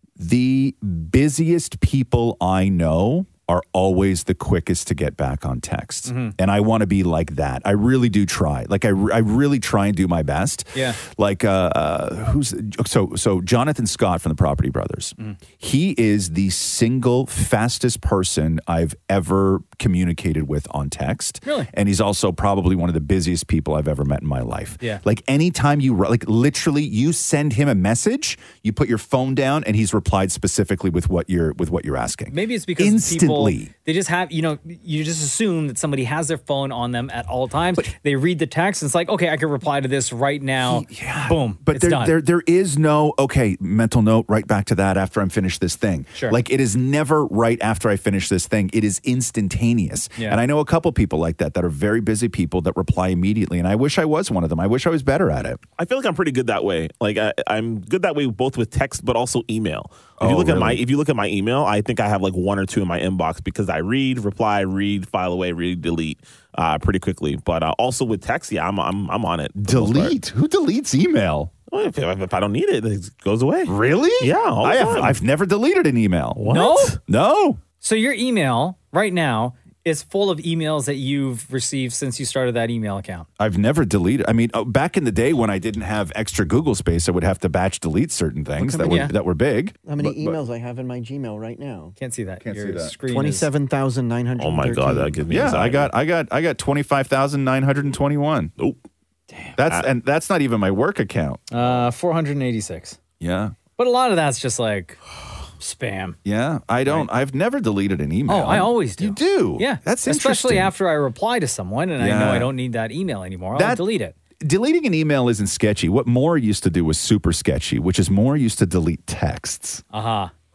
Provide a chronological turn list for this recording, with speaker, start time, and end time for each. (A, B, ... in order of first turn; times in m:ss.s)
0:00.2-0:33.7 A
0:06.0-0:06.3 B
0:21.4-0:21.7 B
0:32.3-0:42.2 B
0:40.6-0:55.6 A
0:55.8-1:10.1 C
1:00.2-1:00.8 A
1:09.5-1:11.5 A
1:11.7-1:15.2 C
1:13.6-1:16.4 A
1:16.4-1:17.0 C
1:16.5-1:17.0 B
1:17.0-1:17.6 A
1:17.8-1:23.3 B
1:23.4-1:30.4 A
1:28.7-1:29.1 B
1:29.8-1:31.9 D
1:32.0-1:33.5 B
1:32.4-1:32.9 A
1:33.1-1:35.2 D
1:34.4-1:35.9 C
1:35.3-1:38.5 A
1:39.6-1:41.9 A
1:41.5-1:43.0 B
1:43.2-1:43.6 A
1:43.8-1:45.0 B
1:45.6-1:46.2 B
1:46.2-1:50.7 A
1:48.3-1:54.1 B
1:52.0-1:52.5 A
1:53.5-1:53.9 A
1:54.4-1:59.8 A
1:59.9-2:00.3 B